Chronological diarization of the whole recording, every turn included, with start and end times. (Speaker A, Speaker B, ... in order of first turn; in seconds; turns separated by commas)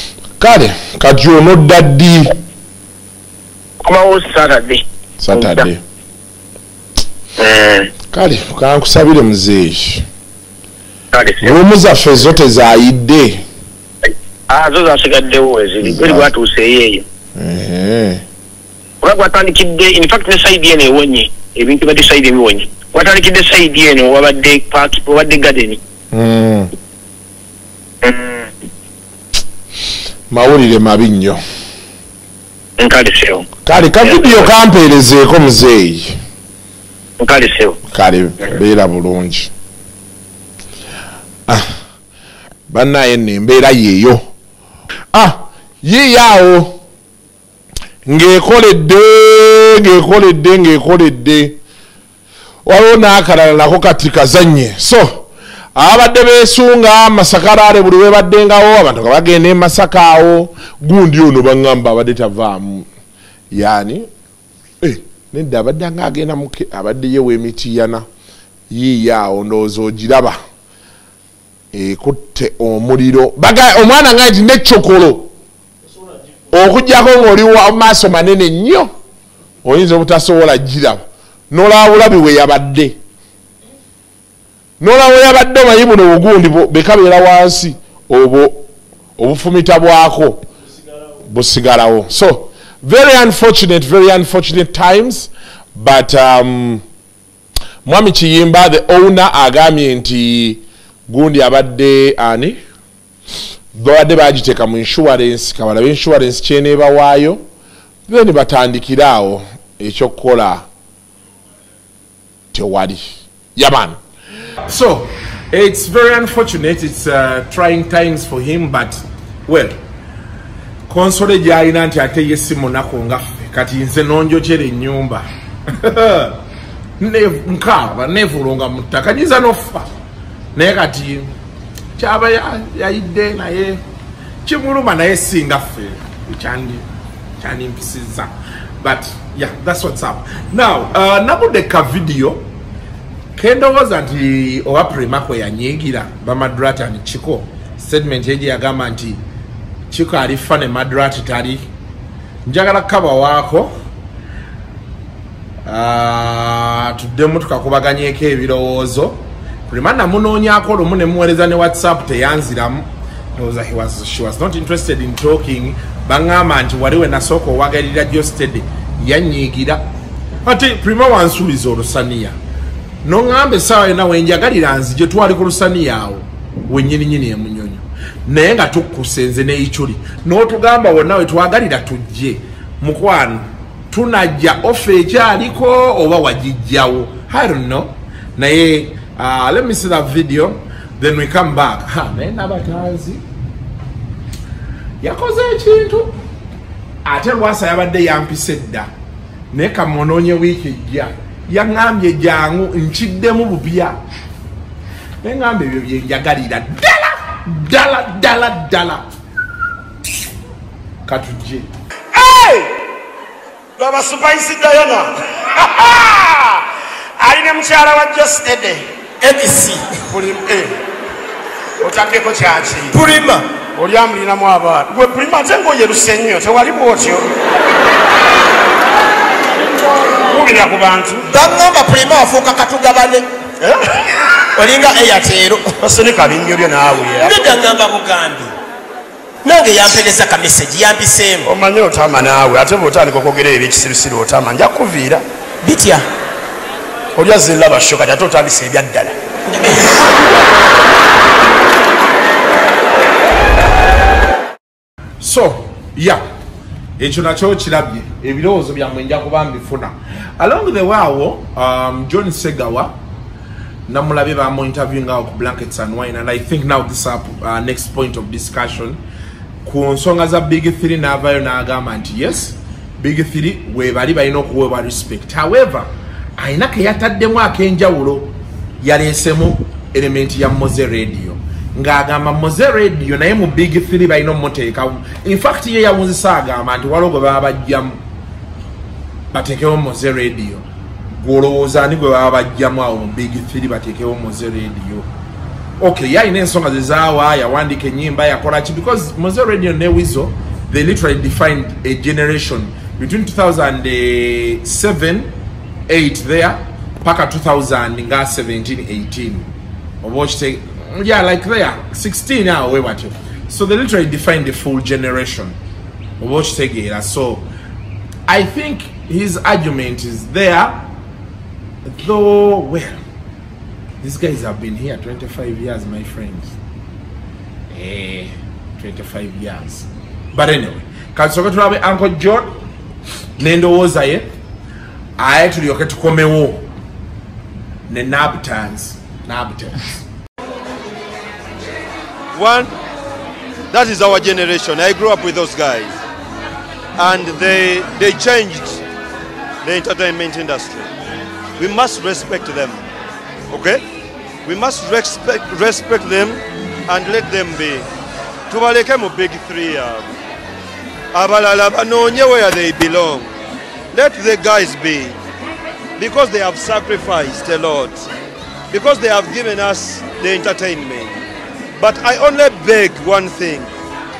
Speaker A: 0.4-2.3, Speaker B: 3.8-4.8, Speaker A: 5.2-5.8, Speaker B: 5.3-5.7, Speaker B: 7.4-7.9, Speaker A: 8.1-10.0, Speaker B: 11.1-11.5, Speaker A: 11.4-13.4, Speaker B: 14.5-17.0, Speaker A: 15.9-16.2, Speaker A: 17.4-18.2, Speaker B: 19.0-25.8, Speaker A: 26.1-26.7, Speaker B: 28.0-28.5, Speaker A: 30.3-31.4, Speaker B: 32.8-33.4, Speaker A: 33.6-36.2, Speaker B: 34.0-34.5, Speaker B: 37.2-37.8, Speaker A: 37.9-39.5, Speaker A: 42.7-44.3, Speaker A: 45.1-46.8, Speaker A: 48.0-51.6, Speaker A: 52.6-62.9, Speaker A: 63.5-64.1, Speaker A: 64.8-68.1, Speaker A: 68.7-70.4, Speaker A: 71.7-75.3, Speaker A: 76.5-78.9, Speaker A: 79.6-83.0, Speaker A: 84.8-88.6, Speaker A: 89.2-90.4, Speaker A: 91.2-96.8, Speaker A: 97.8-102.6, Speaker A: 103.7-107.4, Speaker A: 108.1-110.7, Speaker A: 112.5-114.0, Speaker A: 114.6-119.8, Speaker A: 120.9-126.4, Speaker A: 127.0-129.9, Speaker A: 130.5-131.3, Speaker A: 132.0-133.8, Speaker A: 134.4-136.8, Speaker A: 137.4-142.5, Speaker A: 143.3-149.2, Speaker A: 149.9-151.7, Speaker A: 152.4-153.7, Speaker A: 155.7-169.9, Speaker A: 170.4-172.3, Speaker A: 173.0-193.2, Speaker A: 195.0-196.2, Speaker A: 197.0-198.9, Speaker A: 199.5-204.0, Speaker A: 205.2-209.0, Speaker A: 211.1-211.7, Speaker C: 212.1-212.7, Speaker C: 213.8-216.6, Speaker C: 217.2-220.7, Speaker C: 221.8-227.3, Speaker D: 222.9-223.3, Speaker C: 230.2-231.3, Speaker D: 231.3-233.2, Speaker D: 234.6-235.7, Speaker C: 235.8-237.8, Speaker D: 237.2-238.5, Speaker D: 239.4-241.5, Speaker C: 241.4-245.2, Speaker D: 245.6-246.1, Speaker C: 247.2-249.2, Speaker D: 249.5-249.8, Speaker A: 255.2-256.2, Speaker A: 257.0-263.0, Speaker A: 263.9-269.0, Speaker A: 269.6-288.0, Speaker A: 289.3-295.1, Speaker A: 295.8-305.3, Speaker A: 305.9-309.5, Speaker A: 310.0-315.6, Speaker A: 316.2-317.5, Speaker A: 318.3-320.8, Speaker A: 321.8-323.0, Speaker A: 324.0-326.6, Speaker A: 327.7-332.5, Speaker A: 333.4-334.3, Speaker A: 335.2-336.7, Speaker A: 337.9-340.0, Speaker E: 342.3-342.7, Speaker E: 343.7-345.9, Speaker E: 347.0-348.8, Speaker E: 349.6-350.9, Speaker E: 351.6-352.8, Speaker E: 353.5-353.8, Speaker E: 354.4-357.9, Speaker E: 358.5-360.1, Speaker E: 361.1-363.3, Speaker E: 363.9-365.2, Speaker E: 366.0-368.0, Speaker E: 368.7-371.2, Speaker E: 371.8-373.7